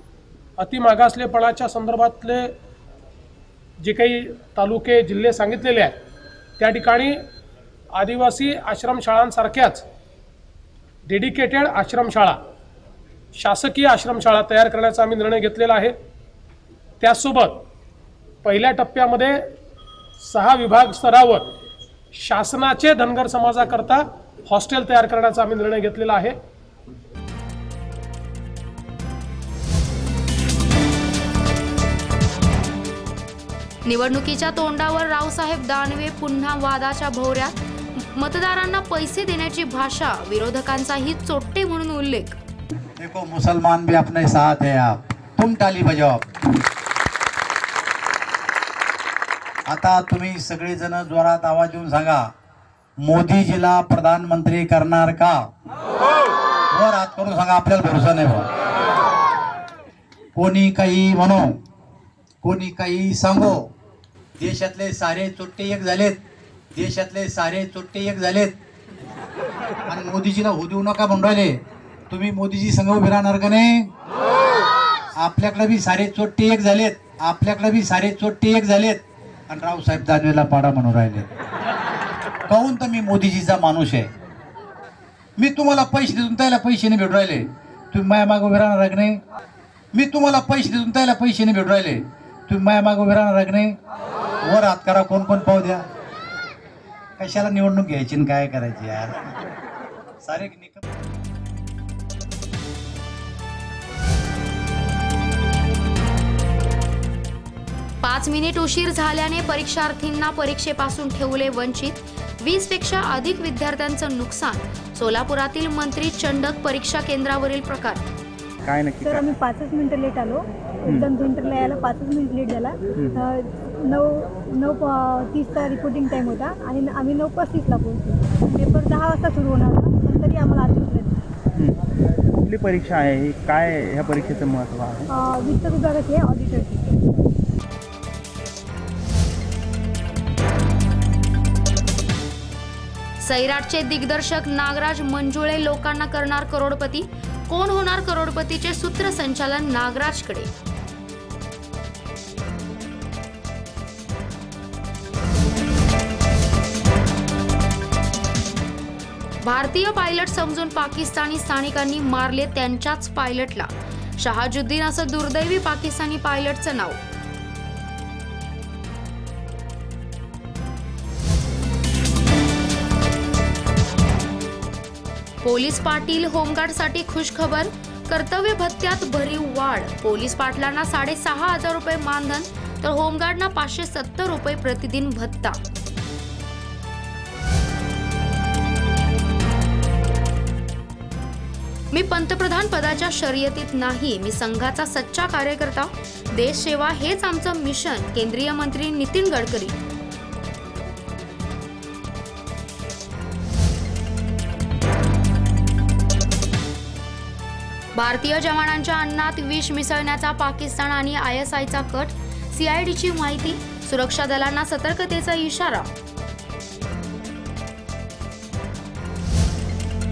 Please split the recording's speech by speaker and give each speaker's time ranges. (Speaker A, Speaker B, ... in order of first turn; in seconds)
Speaker A: 0.6-2.5, 3.8-6.0, 6.6-7.2, 8.0-9.8, 11.1-12.4, 13.3-15.9, 17.0-17.6, 18.4-19.4, 20.2-21.5, 22.1-26.4
Speaker B: 33.8-42.4, 108.0-118.0, 143.2-150.5, 159.4-167.0, 175.4-185.6, 191.9-199.8, 207.9-215.9
Speaker C: 43.0-46.3, 49.7-52.2, 53.0-55.4, 56.7-58.5, 60.4-61.5, 62.4-63.6, 64.4-66.2, 66.8-68.5, 69.9-71.5, 72.1-73.8, 75.2-81.2, 82.5-84.1, 85.4-89.2, 89.9-93.7, 94.4-95.8, 97.2-99.2, 100.2-100.8
Speaker D: 118.6-119.3, 120.8-121.1, 123.0-123.2, 132.3-135.1
Speaker E: 119.0-131.2, 135.1-137.0